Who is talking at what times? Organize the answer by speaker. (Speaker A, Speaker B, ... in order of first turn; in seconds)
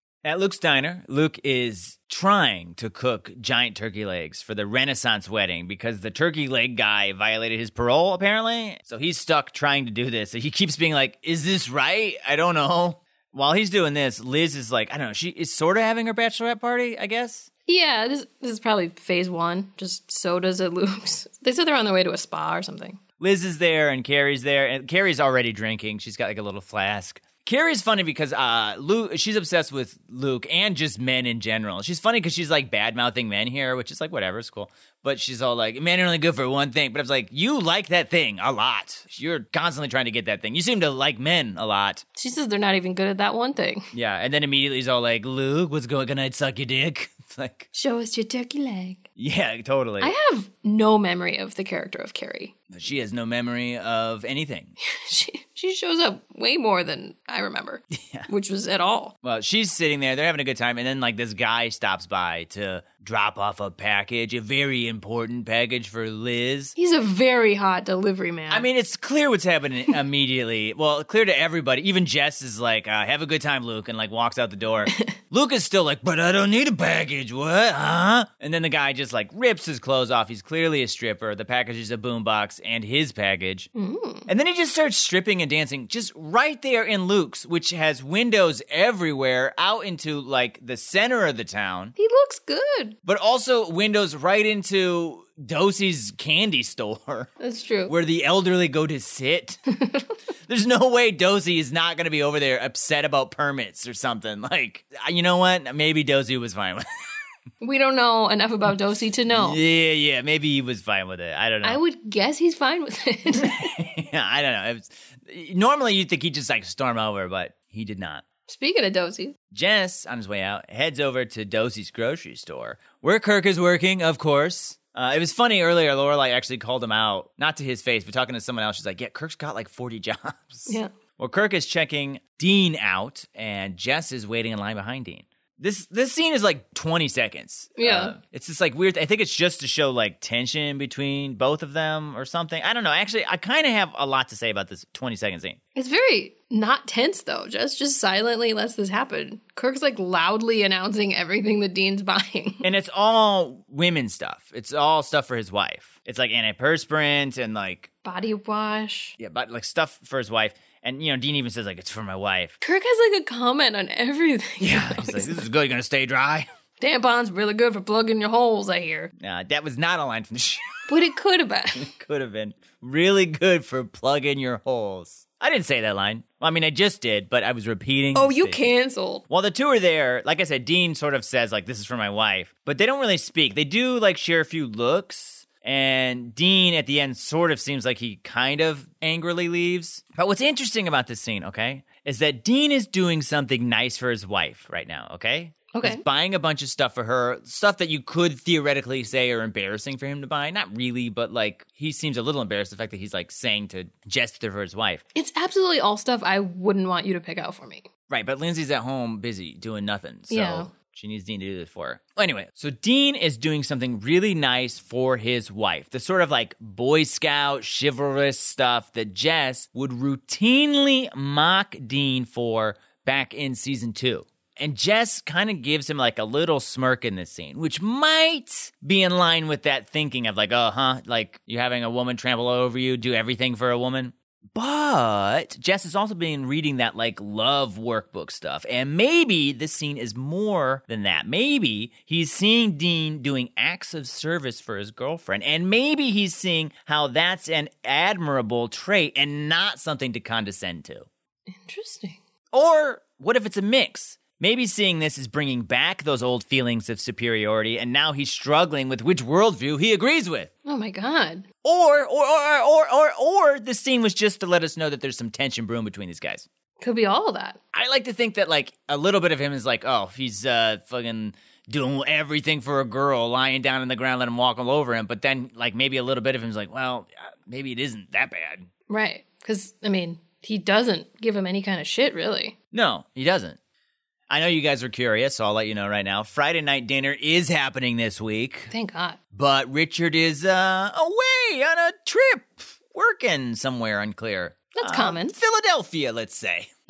Speaker A: 0.2-17.5, 23.2-42.0, 43.9-47.7, 49.2-50.1, 52.7-54.8, 58.0-58.3, 59.2-66.8, 68.5-83.7, 84.3-92.0, 93.0-97.3, 97.9-99.6, 100.5-107.1, 109.3-111.8, 113.4-118.2, 119.5-145.6, 152.6-157.9, 159.2-162.6, 164.6-166.5, 169.2-170.9, 171.8-178.6, 179.3-205.0, 208.1-251.1, 252.5-260.5, 261.6-266.5, 267.7-278.7, 282.7-283.6, 284.3-288.7, 289.3-296.7
Speaker B: 17.7-23.0, 42.1-43.9, 47.7-49.0, 50.0-52.5, 54.8-59.1, 66.8-68.7, 74.9-75.2, 83.8-84.3, 92.0-93.0, 97.4-97.9, 99.8-100.1, 107.6-109.6, 111.6-113.8, 118.5-119.4, 137.8-138.2, 145.8-152.7, 158.0-159.2, 162.6-165.4, 166.8-169.1, 170.9-171.9, 178.1-179.2, 195.7-196.0, 205.2-207.9, 210.3-210.7, 251.5-252.2, 260.6-261.5, 266.8-267.6, 278.9-282.6, 288.7-289.2, 294.7-295.4